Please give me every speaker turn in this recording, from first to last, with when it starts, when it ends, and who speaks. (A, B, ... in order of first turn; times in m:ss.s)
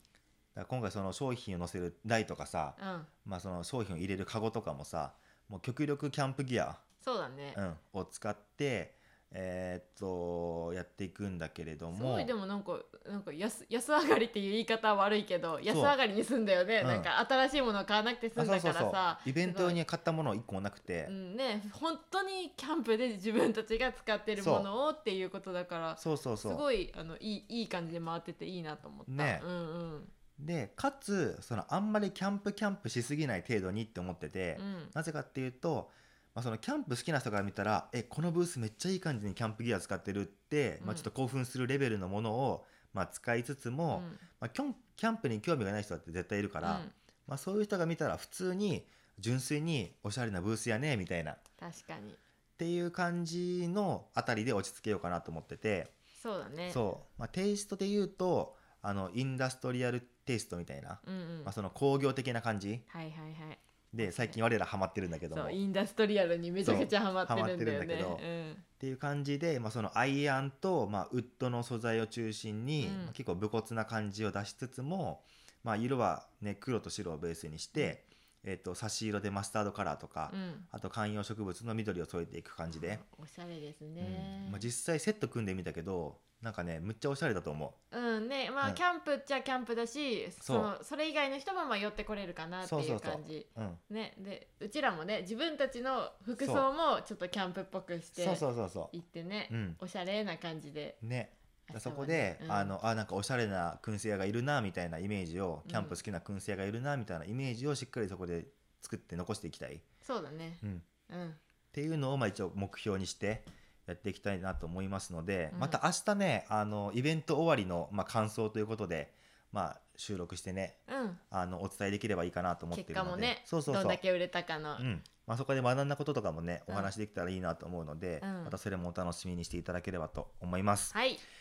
0:00.6-0:06.8 A
0:02.8-0:03.1 B
0:07.0-0:07.6 B
0:07.5-0:12.3 A
0:11.9-0:19.8 B
0:15.7-0:16.0 A
0:16.8-0:17.1 A
0:18.4-0:21.1 A
0:21.0-0:30.1 B
0:24.4-0:24.7 A
0:26.0-0:26.6 A
0:29.1-0:29.5 A
0:30.4-0:51.4 A
0:34.6-0:34.9 B
0:40.8-0:41.1 B
0:43.9-0:44.2 B
0:46.6-0:46.9 B
0:51.6-0:52.2 B
0:52.6-0:55.9 A
0:56.2-0:56.8 B
0:56.7-1:02.8 A
1:01.0-1:01.5 B
1:02.9-1:04.4 B
1:03.9-1:05.6 A
1:05.3-1:08.6 B
1:06.6-1:08.2 A
1:08.8-1:23.0 A
1:12.8-1:13.1 B
1:20.3-1:20.7 B
1:22.7-1:24.7 B
1:24.0-1:27.8 A
1:27.9-1:41.0 B
1:30.4-1:30.7 A
1:32.6-1:33.8 A
1:36.4-1:36.7 A
1:38.1-1:38.9 A
1:39.5-1:39.8 A
1:41.0-1:49.8 A
1:41.7-1:42.7 B
1:45.6-1:46.0 B
1:50.0-1:51.4 B
1:51.7-2:00.8 A
1:55.5-1:55.8 B
2:00.9-2:01.2 B
2:01.3-2:04.0 A
2:02.7-2:04.9 B
2:04.8-2:10.9 A
2:08.2-2:08.6 B
2:10.9-2:11.2 B